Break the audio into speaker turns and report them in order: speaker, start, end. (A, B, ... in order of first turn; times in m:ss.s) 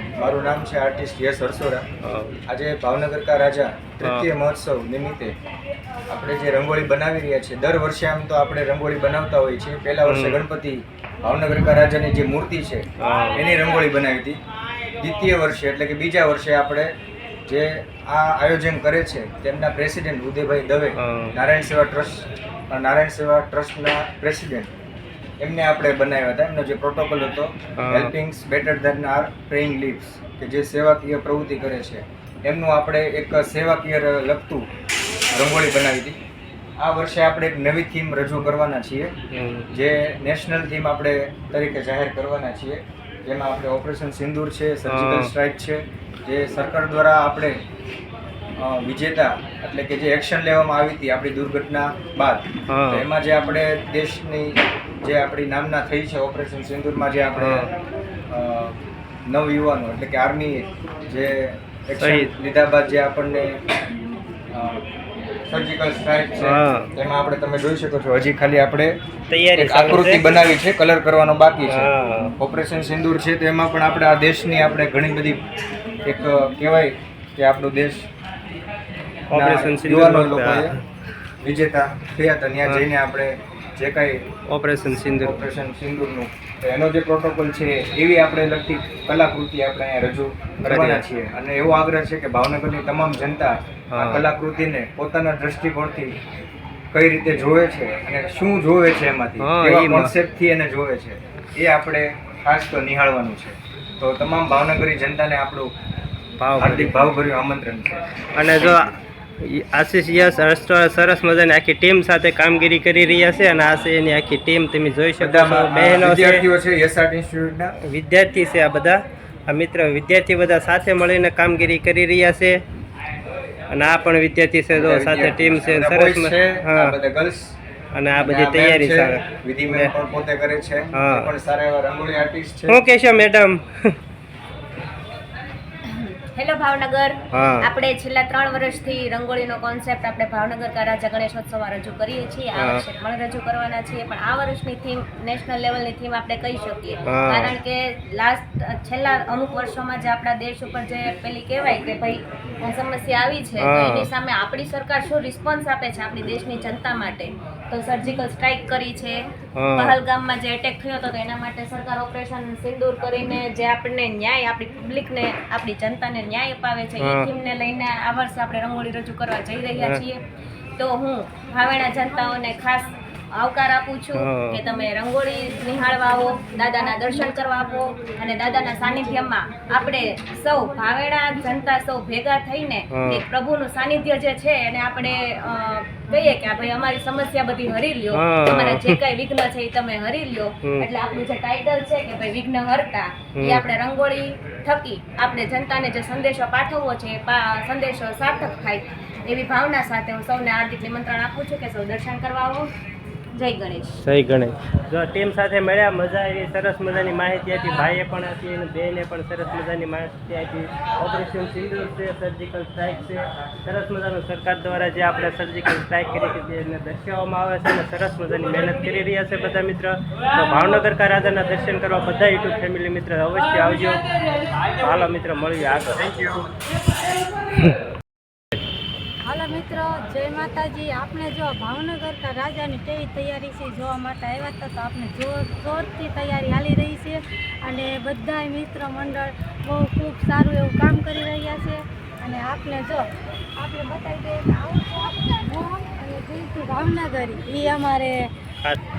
0:00.2-0:01.9 A
0:02.0-0:02.4 B
0:02.5-0:05.3 A
0:04.0-0:04.3 B
0:06.1-0:14.4 A
0:10.1-0:10.4 B
0:13.0-0:13.4 B
0:15.0-0:16.9 A
0:17.5-0:24.7 A
0:21.0-0:21.3 B
0:25.4-0:34.7 A
0:27.8-0:28.2 B
0:35.3-0:36.2 A
0:36.8-0:39.2 A
0:39.3-0:39.7 B
0:39.7-0:47.6 A
0:44.9-0:45.3 B
0:48.6-0:57.7 A
0:52.7-0:53.1 B
0:57.4-0:57.7 B
0:58.3-1:03.6 A
1:02.0-1:02.3 B
1:04.5-1:04.8 A
1:05.5-1:09.0 A
1:06.4-1:06.9 B
1:09.3-1:10.4 B
1:09.6-1:15.4 A
1:11.7-1:12.4 B
1:16.0-1:18.1 A
1:19.3-1:20.7 A
1:19.3-1:20.8 B
1:21.4-1:24.2 A
1:24.5-1:25.4 B
1:25.1-1:36.2 A
1:30.6-1:31.0 B
1:33.9-1:34.2 B
1:36.9-1:45.7 A
1:39.4-1:40.1 B
1:46.4-1:46.9 B
1:46.6-1:48.0 A
1:48.4-1:56.4 B
1:55.2-1:57.8 A
1:57.8-2:02.6 B
2:03.7-2:07.0 B
2:04.7-2:07.6 A
2:07.9-2:09.9 B
2:08.2-2:12.8 A
2:10.9-2:11.3 B
2:12.7-2:14.0 B
2:15.9-2:39.2 C
2:17.3-2:17.6 B
2:22.6-2:22.8 B
2:27.1-2:27.5 B
2:33.6-2:34.1 B
2:39.6-2:40.0 B
2:39.8-2:50.2 C
2:47.0-2:47.3 B
2:50.8-3:22.7 C
2:54.2-2:54.6 B
3:02.9-3:03.2 B
3:08.1-3:09.0 B
3:13.4-3:13.6 B
3:23.4-3:24.0 C
3:24.0-3:44.0 B
3:44.8-3:46.0 B
3:46.0-3:46.6 A
3:49.3-4:03.1 D
4:03.6-4:08.3 D